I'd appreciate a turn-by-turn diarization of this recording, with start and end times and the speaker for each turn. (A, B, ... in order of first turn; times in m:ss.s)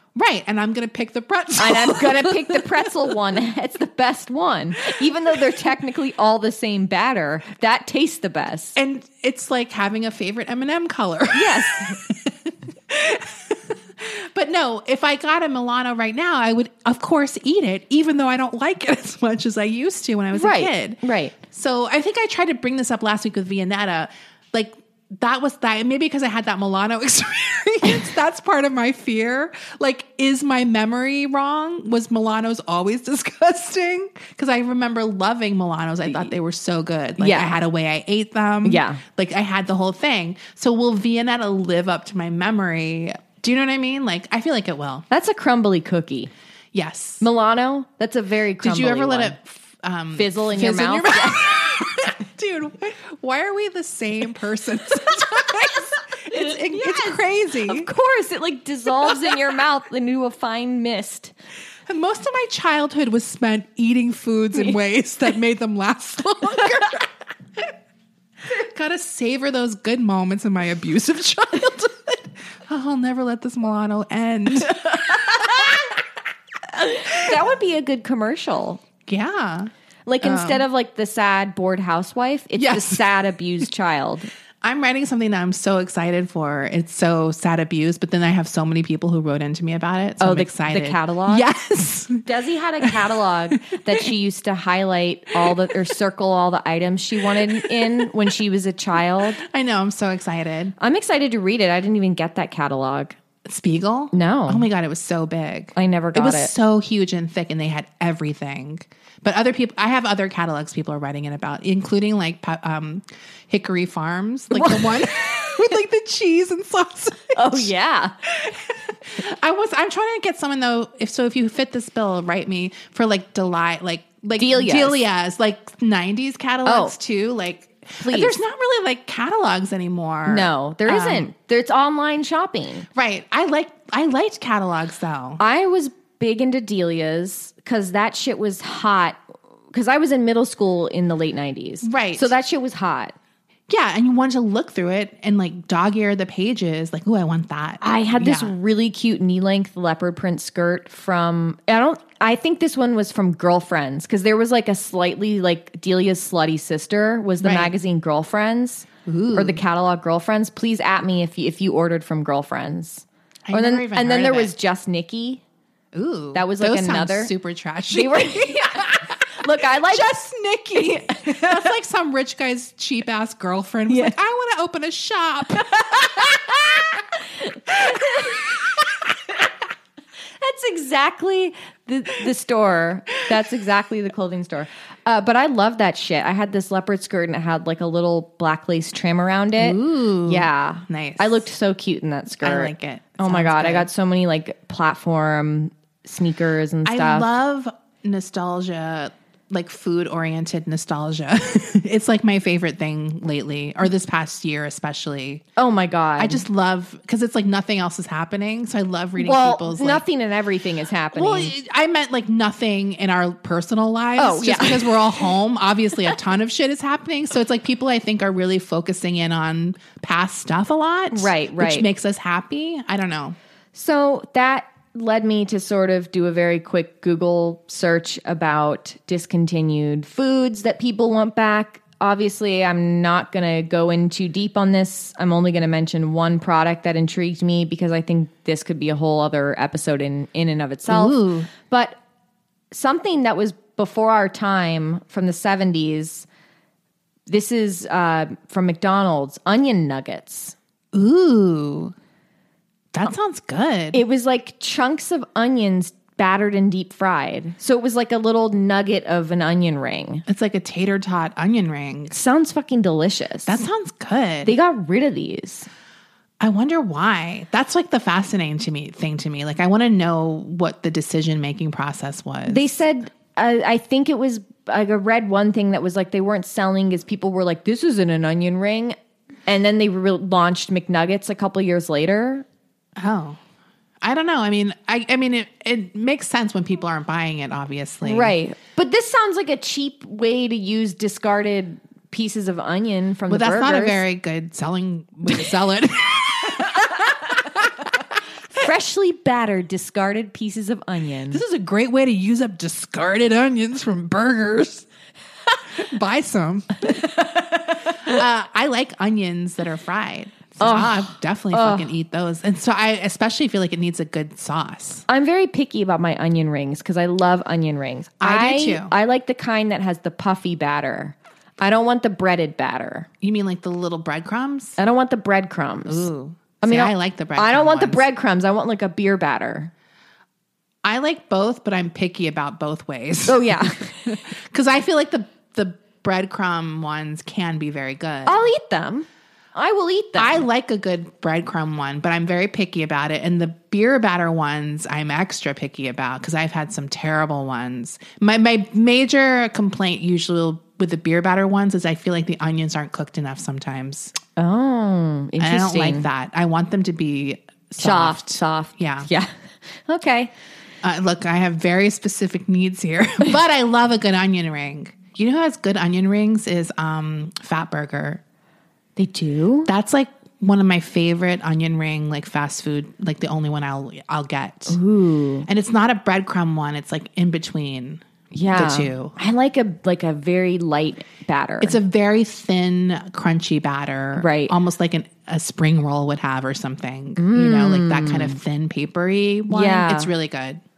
0:00.2-0:02.9 A
0:01.6-0:08.8 B
0:08.8-0:45.1 A
0:11.3-0:12.0 B
0:20.3-0:21.4 B
0:37.2-0:37.5 B
0:38.6-0:39.0 B
0:45.1-0:46.3 B
0:46.7-0:47.2 A
0:47.2-0:49.4 B
0:48.6-0:57.9 A
0:50.2-0:51.6 B
0:56.4-1:01.3 B
0:59.0-0:59.4 A
1:01.9-1:07.6 A
1:08.4-1:15.9 A
1:15.2-1:15.7 B
1:16.8-1:18.8 B
1:19.1-1:19.7 A
1:20.1-1:24.3 B
1:20.2-1:20.6 A
1:22.6-1:23.0 A
1:24.6-1:32.3 A
1:30.2-1:31.5 B
1:32.2-1:39.4 B
1:33.7-1:34.0 A
1:37.5-1:38.1 A
1:39.4-1:40.8 A
1:40.8-1:43.2 B
1:43.5-1:57.7 A
1:44.1-1:44.7 B
1:45.8-1:46.5 B
1:54.5-1:55.6 B
1:57.3-1:58.1 B
1:58.3-2:11.3 A
2:04.4-2:05.0 B
2:06.7-2:06.9 B
2:08.0-2:08.4 B
2:10.3-2:12.9 B
2:13.0-2:15.4 A
2:15.4-2:19.2 B
2:19.7-2:23.2 B
2:21.8-2:22.3 A
2:23.7-2:28.5 A
2:27.8-2:45.4 B
2:37.4-2:37.7 A
2:39.1-2:39.6 A
2:43.5-2:44.5 A
2:45.9-2:56.8 A
2:46.3-2:47.3 B
2:47.9-2:50.1 B
2:50.8-2:51.7 B
2:53.9-2:54.2 B
2:55.6-2:56.6 B
2:57.4-2:58.5 B
3:00.4-3:17.3 B
3:09.6-3:11.5 A
3:12.4-3:13.9 A
3:16.8-3:25.4 A
3:25.6-3:26.4 B
3:26.2-3:30.0 A
3:29.2-3:31.5 B
3:31.1-3:43.4 A
3:34.2-3:35.0 B
3:41.1-3:41.9 B
3:43.7-4:02.0 B
4:00.9-4:01.5 A
4:02.7-4:06.3 B
4:07.3-4:10.6 B
4:10.9-4:11.9 A
4:12.9-4:14.0 A
4:13.9-4:20.2 B
4:20.3-4:22.2 A
4:22.1-4:23.6 B
4:23.5-4:24.5 A
4:24.4-4:25.7 B
4:26.4-4:32.7 A
4:32.5-4:39.0 B
4:39.5-4:42.4 B
4:43.0-4:43.4 A
4:44.0-4:48.4 A
4:48.0-4:54.0 B
4:53.3-4:57.9 A
4:58.6-5:01.4 B
5:01.3-5:04.9 A
5:05.7-5:15.0 A
5:10.6-5:11.9 B
5:15.1-5:23.1 B
5:18.2-5:18.9 A
5:23.2-5:24.8 A
5:24.8-5:26.1 B
5:25.9-5:28.0 A
5:26.6-5:29.7 B
5:30.8-5:38.5 A
5:33.3-5:34.2 B
5:38.2-5:40.4 B
5:40.2-5:54.1 A
5:54.4-5:56.1 B
5:55.4-5:59.1 A
5:57.8-6:00.3 B
6:00.8-6:08.2 A
6:09.0-6:09.7 B
6:09.7-6:14.8 A
6:14.7-6:15.5 B
6:15.5-6:19.2 A
6:18.3-6:21.8 B
6:21.6-6:30.6 A
6:24.2-6:24.6 B
6:27.2-6:28.4 B
6:29.5-6:30.1 B